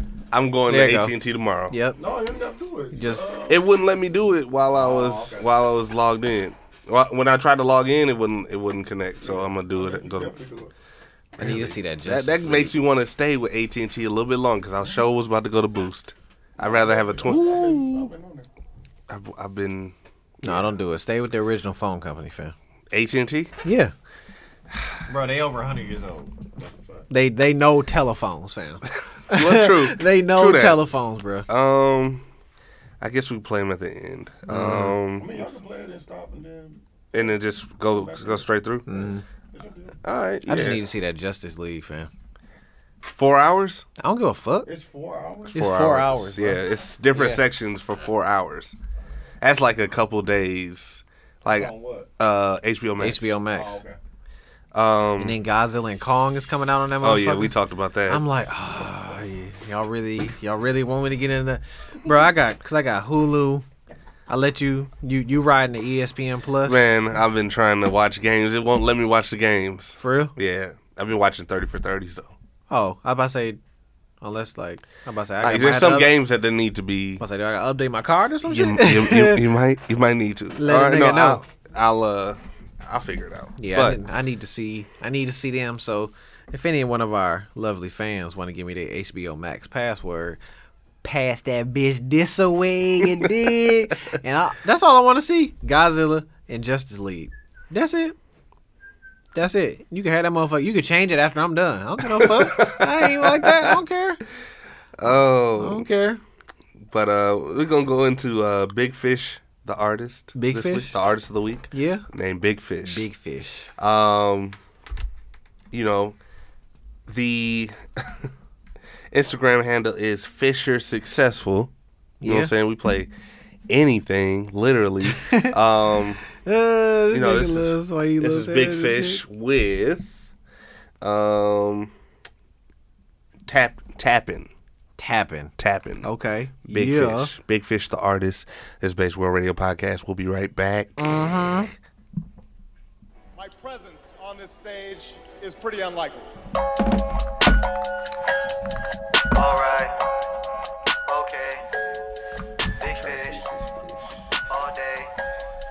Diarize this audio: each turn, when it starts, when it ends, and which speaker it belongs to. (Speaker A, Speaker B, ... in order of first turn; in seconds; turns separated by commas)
Speaker A: 0.3-1.8, Speaker B: 0.7-1.1, Speaker B: 1.7-2.0, Speaker C: 2.0-3.6, Speaker B: 2.9-3.2, Speaker A: 3.5-10.4, Speaker C: 4.7-5.5, Speaker C: 9.2-10.7, Speaker B: 11.4-12.7, Speaker A: 11.4-17.6, Speaker C: 16.6-18.5, Speaker B: 17.2-18.1, Speaker A: 19.1-20.7, Speaker B: 20.4-22.5, Speaker A: 22.9-23.5, Speaker B: 23.6-23.9, Speaker B: 25.1-26.3, Speaker C: 26.6-27.1, Speaker B: 27.1-31.5, Speaker A: 28.9-30.8, Speaker A: 31.5-32.2, Speaker A: 33.0-35.5, Speaker B: 34.5-35.0, Speaker C: 35.2-37.3, Speaker A: 37.1-38.9, Speaker C: 37.9-39.0, Speaker B: 38.9-39.2, Speaker C: 39.5-40.0, Speaker A: 40.0-40.8, Speaker B: 40.5-42.1, Speaker A: 43.1-43.9, Speaker B: 44.0-44.7, Speaker C: 44.7-45.6, Speaker A: 45.5-48.8, Speaker B: 45.5-46.6, Speaker B: 47.1-47.4, Speaker A: 49.4-53.4, Speaker C: 51.5-52.1, Speaker B: 53.0-53.8, Speaker C: 53.5-54.0, Speaker A: 54.7-55.4, Speaker B: 55.2-57.5, Speaker A: 57.0-58.2, Speaker B: 58.1-63.6, Speaker B: 64.3-66.8, Speaker A: 66.6-72.3, Speaker B: 70.0-70.3, Speaker B: 72.7-73.6, Speaker B: 74.2-76.1, Speaker A: 75.4-77.2, Speaker B: 77.2-79.5, Speaker A: 78.5-84.0, Speaker B: 80.6-81.4, Speaker B: 83.6-90.4, Speaker B: 91.0-98.1, Speaker A: 93.0-93.3, Speaker B: 99.3-104.2, Speaker A: 102.0-103.8, Speaker A: 105.0-105.9, Speaker B: 105.6-106.2, Speaker A: 106.8-113.0, Speaker B: 110.3-111.0, Speaker B: 111.7-112.0, Speaker B: 112.8-113.7, Speaker A: 113.8-114.6, Speaker A: 115.7-116.2, Speaker A: 117.1-118.3, Speaker A: 119.1-121.7, Speaker B: 122.2-122.5, Speaker A: 122.2-123.1, Speaker A: 123.7-126.2, Speaker B: 125.0-125.5, Speaker B: 126.4-129.2, Speaker A: 127.1-130.1, Speaker A: 131.0-131.9, Speaker A: 133.4-134.5, Speaker B: 135.0-137.3, Speaker A: 135.6-136.1, Speaker A: 136.7-141.0, Speaker B: 141.0-141.7, Speaker D: 143.4-146.3, Speaker E: 149.3-149.9, Speaker E: 151.1-151.6, Speaker E: 152.8-153.4, Speaker A: 152.8-154.1, Speaker E: 154.5-155.1